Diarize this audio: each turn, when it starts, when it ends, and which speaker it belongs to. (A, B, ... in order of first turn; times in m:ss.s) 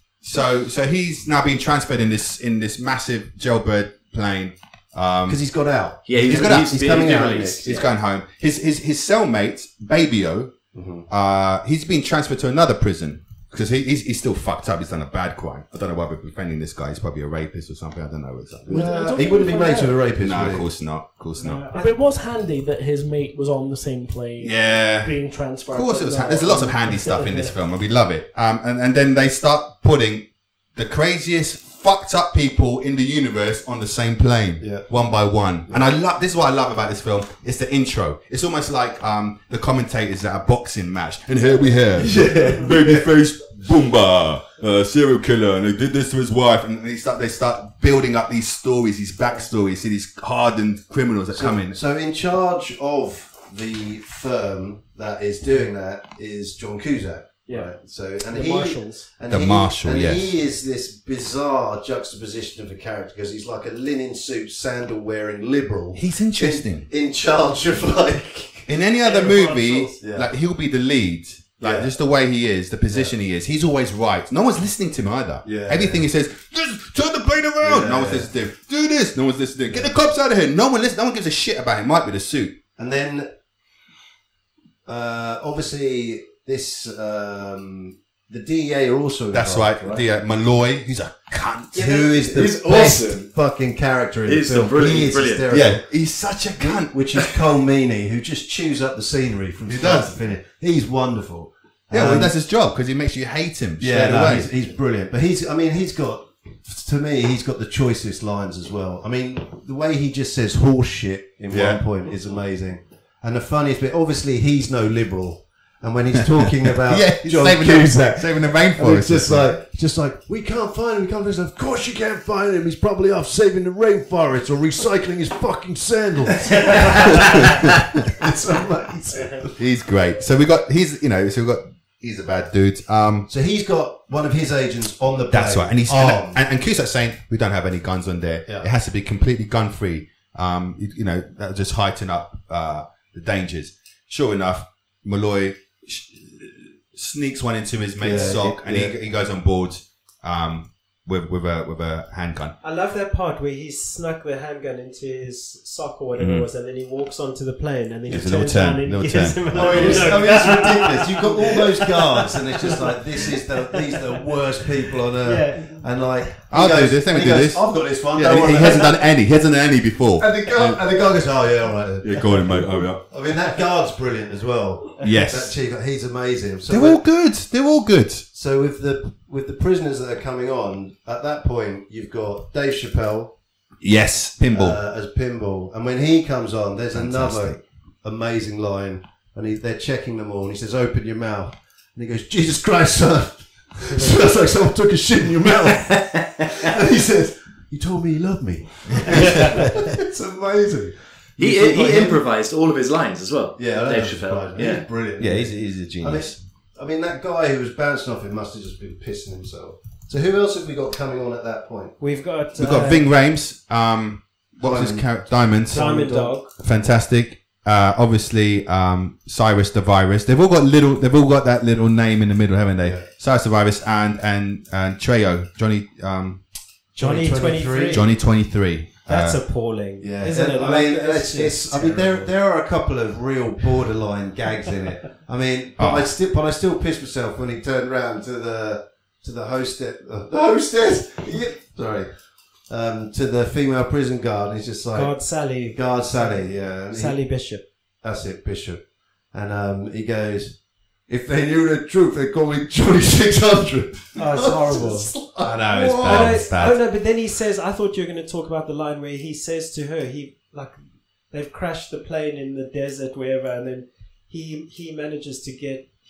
0:00.2-0:05.4 A
0:05.3-0:07.8 B
0:06.1-0:07.8 C
0:06.2-0:10.6 A
0:10.7-0:11.1 B
0:11.1-0:19.0 A
0:18.7-0:20.7 B
0:18.7-0:20.0 D
0:20.2-0:21.6 A
0:21.4-0:22.0 E
0:21.7-0:27.5 D
0:24.4-0:51.8 A
0:34.6-0:34.9 B
0:42.0-0:43.1 B
0:51.3-1:08.7 B
0:58.3-0:59.0 D
0:59.3-1:00.3 A
1:05.9-1:06.9 A
1:08.7-1:22.6 A
1:09.0-1:09.9 E
1:10.0-1:10.3 B
1:11.6-1:11.9 B
1:12.9-1:13.2 B
1:15.4-1:16.1 B
1:17.6-1:18.3 B
1:19.7-1:19.9 B
1:22.8-1:23.3 B
1:24.9-1:30.0 B
1:29.3-1:32.0 A
1:31.7-1:35.8 B
1:31.7-1:32.1 E
1:32.3-1:33.3 C
1:34.3-1:35.5 C
1:35.5-1:37.0 A
1:36.6-1:42.3 B
1:39.7-1:40.2 A
1:41.9-1:44.5 A
1:43.8-2:09.6 B
1:51.5-1:51.8 A
1:56.8-1:59.5 A
2:07.2-2:07.6 A
2:09.6-2:13.3 A
2:13.3-2:16.4 B
2:15.3-2:32.6 A
2:28.0-2:29.0 B
2:32.6-2:44.0 E
2:36.2-2:36.5 A
2:38.1-2:40.4 A
2:39.5-2:49.0 B
2:45.2-2:45.9 E
2:46.5-2:50.8 A
2:50.2-2:57.0 B
2:52.0-2:53.0 A
2:55.0-2:55.3 E
2:55.0-2:55.5 A
2:56.7-2:58.2 A
2:58.3-3:03.4 B
3:03.8-3:04.8 A
3:04.5-3:22.2 B
3:06.9-3:07.6 A
3:18.9-3:19.7 A
3:21.4-3:24.9 C
3:23.6-3:32.0 B
3:25.2-3:26.4 A
3:32.0-3:33.1 E
3:32.6-3:35.8 A
3:34.6-3:36.3 B
3:35.7-3:36.5 E
3:36.6-3:46.4 A
3:42.8-3:43.1 B
3:47.0-3:48.1 B
3:47.0-3:48.1 E
3:47.9-3:49.4 A
3:49.1-3:52.3 E
3:50.0-4:02.1 B
3:55.8-3:56.1 A
4:02.7-4:05.1 B
4:04.9-4:07.6 E
4:05.7-4:07.2 B
4:08.0-4:16.5 B
4:14.2-4:15.1 E
4:15.4-4:16.8 A
4:15.9-4:20.8 E
4:21.3-4:25.9 E